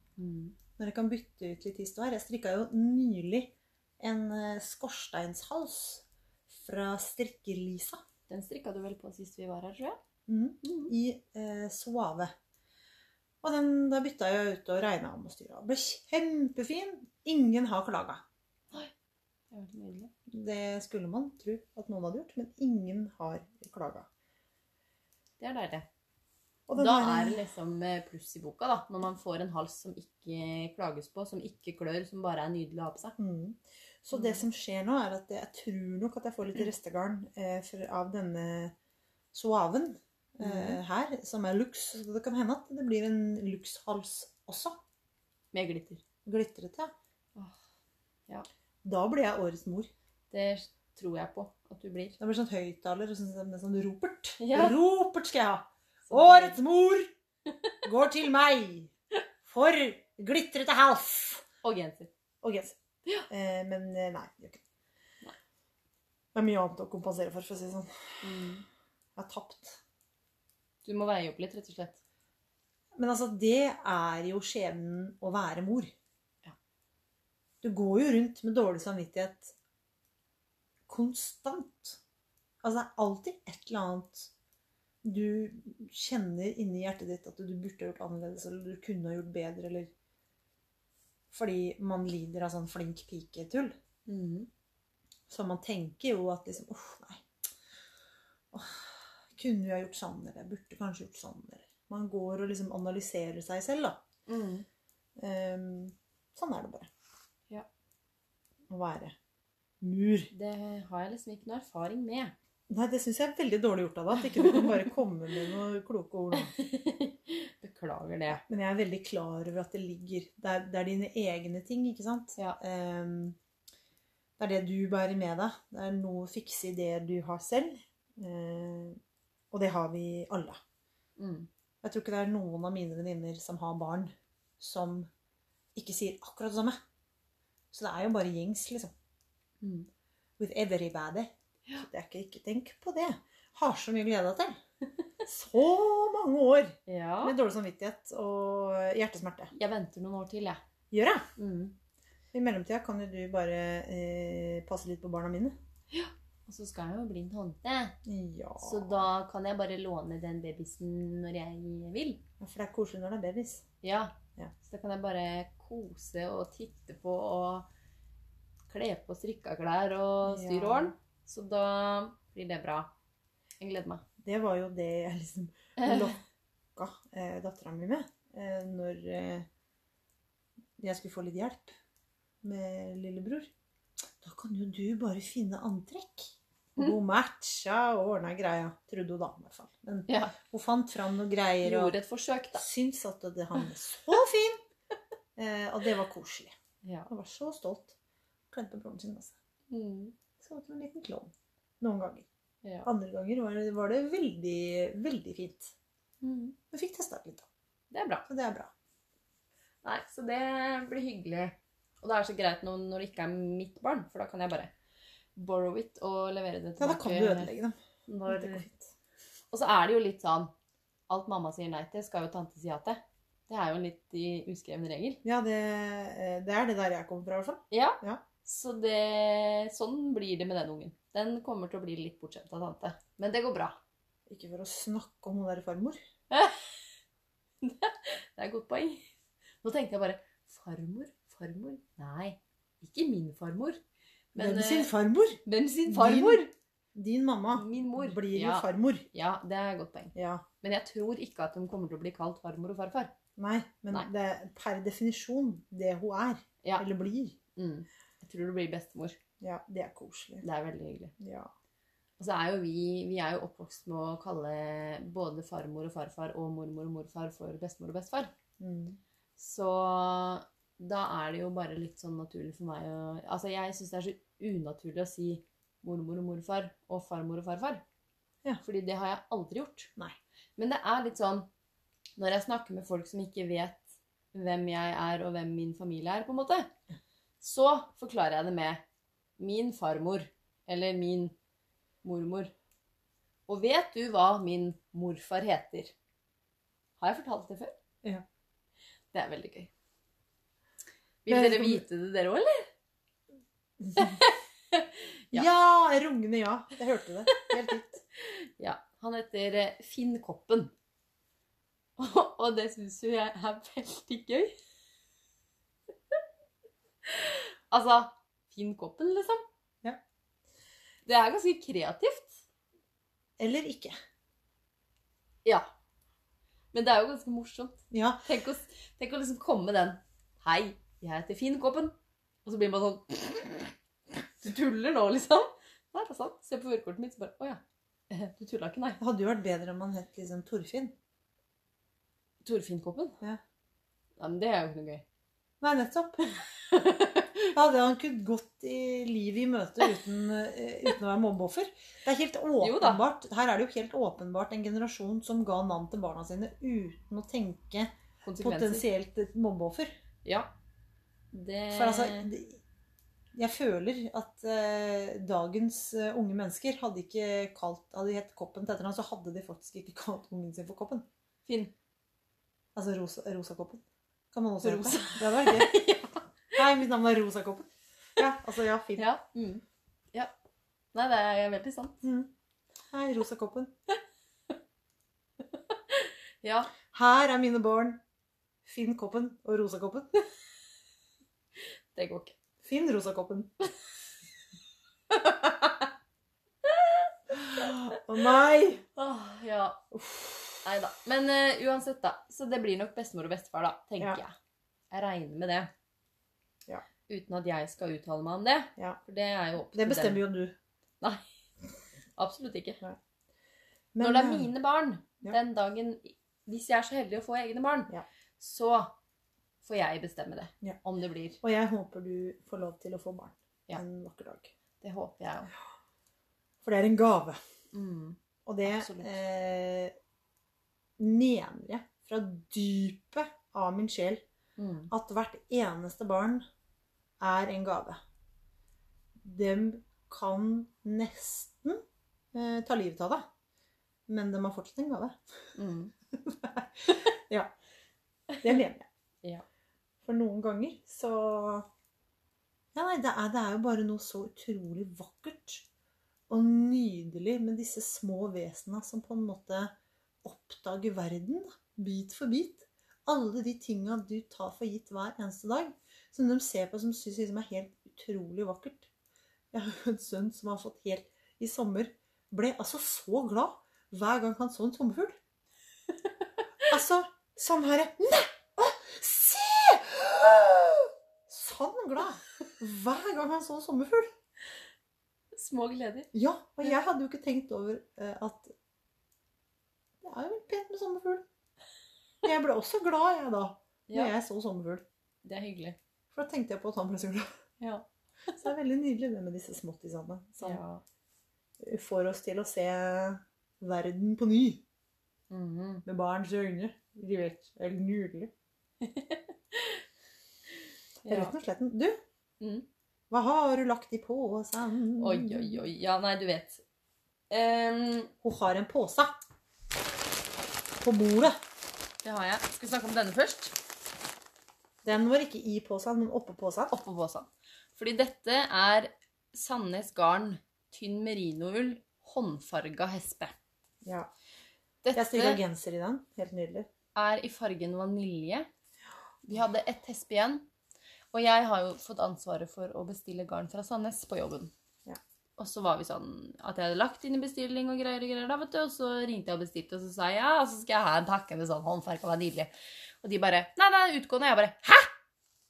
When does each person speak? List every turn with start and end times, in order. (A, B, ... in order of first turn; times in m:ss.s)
0:00.2-0:00.6 A
0:00.8-0:08.0 B
0:08.3-0:10.0 A
0:10.3-0:12.3 B
0:10.6-0:10.9 A
0:13.4-0:18.2 B
0:19.5-0:20.1 A
0:20.3-0:24.1 B
0:25.4-0:25.8 A
0:26.7-0:27.4 B
0:26.8-0:33.2 A
0:33.2-0:38.7 B
0:34.1-0:34.4 A
0:39.3-0:44.8 B
0:40.4-0:40.8 A
0:45.5-0:46.0 A
0:46.2-0:46.9 B
0:48.8-0:49.9 B
0:50.3-0:52.2 A
0:52.2-0:57.1 B
0:54.4-0:54.8 A
0:56.1-0:56.6 A
0:57.8-0:58.9 B
0:59.4-1:01.4 B
1:01.6-1:02.1 A
1:02.4-1:02.8 B
1:03.3-1:04.6 B
1:06.3-1:08.2 B
1:08.2-1:08.6 A
1:09.2-1:09.8 B
1:10.8-1:12.0 A
1:13.0-1:15.9 B
1:17.6-1:19.5 B
1:20.9-1:22.0 B
1:22.6-1:24.3 B
1:25.0-1:29.9 B
1:31.3-1:33.7 B
1:34.0-1:34.5 A
1:35.3-1:37.2 B
1:38.5-1:44.0 B
1:44.3-1:44.6 A
1:45.2-1:46.9 B
1:48.7-1:49.2 B
1:49.8-1:50.3 B
1:50.3-1:52.3 A
1:52.7-1:56.5 B
1:54.3-1:54.8 A
1:56.3-1:58.4 A
1:58.3-2:03.4 B
2:04.4-2:09.0 B
2:09.5-2:10.6 B
2:11.2-2:11.5 A
2:11.8-2:15.1 B
2:15.7-2:16.8 B
2:17.7-2:18.9 B
2:19.6-2:19.9 A
2:20.4-2:21.3 B
2:21.8-2:24.6 B
2:25.2-2:29.5 B
2:26.9-2:27.4 A
2:29.5-2:30.6 A
2:30.9-2:31.2 B
2:31.4-2:31.7 A
2:32.3-2:35.6 B
2:35.9-2:38.0 A
2:38.0-2:39.0 B
2:38.6-2:42.2 A
2:42.4-2:43.6 B
2:43.8-2:47.7 A
2:48.7-2:52.9 A
2:50.2-2:50.9 B
2:53.6-2:54.0 A
2:54.2-2:56.2 B
2:55.8-2:56.2 A
2:56.7-2:59.4 B
3:00.8-3:01.8 B
3:02.4-3:03.5 B
3:04.2-3:12.0 B
3:10.1-3:10.3 A
3:11.6-3:12.6 A
3:12.5-3:14.6 B
3:15.4-3:16.5 B
3:16.8-3:17.1 A
3:17.1-3:18.0 B
3:18.5-3:19.3 B
3:19.7-3:20.2 A
3:20.4-3:22.2 B
3:22.6-3:22.9 A
3:22.8-3:25.7 B
3:26.2-3:26.6 A
3:26.7-3:27.4 B
3:27.9-3:28.2 A
3:28.3-3:28.7 B
3:29.8-3:34.7 A
3:35.4-3:37.5 A
3:36.8-3:37.8 B
3:38.1-3:38.6 A
3:38.3-3:38.9 B
3:39.5-3:40.5 A
3:41.1-3:45.2 A
3:45.2-3:48.2 B
3:47.7-3:53.8 A
3:54.3-3:56.0 B
3:56.3-3:56.8 A
3:57.6-3:59.1 A
3:59.6-4:03.8 A
4:04.3-4:04.9 A
4:04.4-4:06.4 B
4:05.4-4:06.5 A
4:06.9-4:09.0 B
4:07.5-4:13.1 A
4:10.1-4:10.4 B
4:13.4-4:17.4 B
4:17.6-4:19.2 A
4:19.4-4:20.4 B
4:20.4-4:21.1 A
4:21.2-4:21.5 B
4:22.2-4:28.3 A
4:28.6-4:29.0 B
4:29.4-4:37.8 A
4:38.6-4:39.9 A
4:40.6-4:41.5 A
4:42.2-4:43.8 A
4:44.3-4:46.7 A
4:47.4-4:48.8 A
4:49.4-4:51.4 A
4:52.0-4:52.5 A
4:53.5-4:55.9 A
4:57.0-4:57.7 A
4:59.1-4:59.7 A
5:01.2-5:02.7 A
5:01.3-5:01.8 B
5:03.8-5:04.2 B
5:03.9-5:05.5 A
5:05.3-5:08.0 B
5:08.1-5:10.7 A
5:12.0-5:14.5 A
5:17.0-5:19.4 A
5:21.0-5:22.4 A
5:23.4-5:23.9 B
5:26.7-5:33.7 A
5:27.9-5:28.2 B
5:34.4-5:39.0 A
5:39.0-5:40.9 B
5:42.4-5:43.2 A
5:44.2-5:45.0 A
5:45.6-5:46.4 B
5:46.6-5:47.5 A
5:47.5-5:59.9 B
5:52.6-5:53.0 A
5:58.2-5:58.8 A
6:00.2-6:00.5 A
6:01.3-6:02.3 A
6:01.7-6:02.6 B
6:03.3-6:11.0 B
6:11.4-6:11.7 A
6:12.7-6:15.8 B
6:14.6-6:16.6 A
6:16.5-6:19.0 B
6:19.0-6:19.6 A
6:20.9-6:22.0 A
6:22.0-6:22.3 B
6:22.9-6:23.7 B
6:25.5-6:26.7 A
6:26.9-6:28.0 B
6:28.6-6:30.1 B
6:31.9-6:32.3 A
6:32.6-6:33.5 B
6:35.1-6:35.9 A
6:36.6-6:37.9 A
6:37.3-6:38.8 B
6:39.0-6:39.8 A
6:39.9-6:40.6 B
6:40.6-6:44.3 A
6:44.9-6:45.7 A
6:47.1-6:50.2 A
6:49.7-6:50.5 B
6:52.2-6:52.8 A
6:53.9-6:54.5 B
6:54.0-6:58.9 A
6:59.6-7:01.4 A
7:01.4-7:04.5 B
7:04.8-7:05.5 A
7:06.6-7:07.4 B
7:07.7-7:09.1 A
7:08.4-7:09.9 B
7:11.0-7:14.2 B
7:14.6-7:14.9 A
7:14.9-7:16.4 B
7:17.2-7:18.0 B
7:19.2-7:23.3 B
7:24.1-7:25.2 B
7:25.6-7:25.9 A
7:26.1-7:27.5 B
7:28.4-7:28.8 B
7:30.0-7:31.7 B
7:32.7-7:35.7 B
7:36.3-7:48.9 B
7:49.5-7:55.2 B
7:56.7-8:04.1 B
8:05.3-8:06.1 A
8:06.1-8:08.5 B
8:10.0-8:11.2 B
8:12.2-8:14.8 B
8:13.9-8:14.1 A
8:15.2-8:15.8 A
8:16.1-8:17.2 B
8:17.6-8:18.4 A
8:18.3-8:20.6 B
8:20.4-8:20.8 A
8:21.6-8:24.6 B
8:25.3-8:25.8 A
8:25.8-8:28.3 B
8:28.8-8:29.8 A
8:31.0-8:31.3 A
8:31.1-8:32.0 B
8:32.4-8:32.6 A
8:33.1-8:35.6 B
8:35.0-8:36.6 A
8:37.3-8:38.1 A
8:38.2-8:39.2 B
8:40.8-8:41.4 B
8:42.0-8:43.6 A
8:44.8-8:46.7 B
8:46.7-8:53.4 A
8:53.8-8:54.1 B
8:54.8-8:55.4 A
8:54.9-8:56.7 B
8:56.9-8:58.5 A
8:59.2-9:00.5 A
9:01.1-9:04.5 A
9:05.4-9:12.5 A
9:13.0-9:14.9 A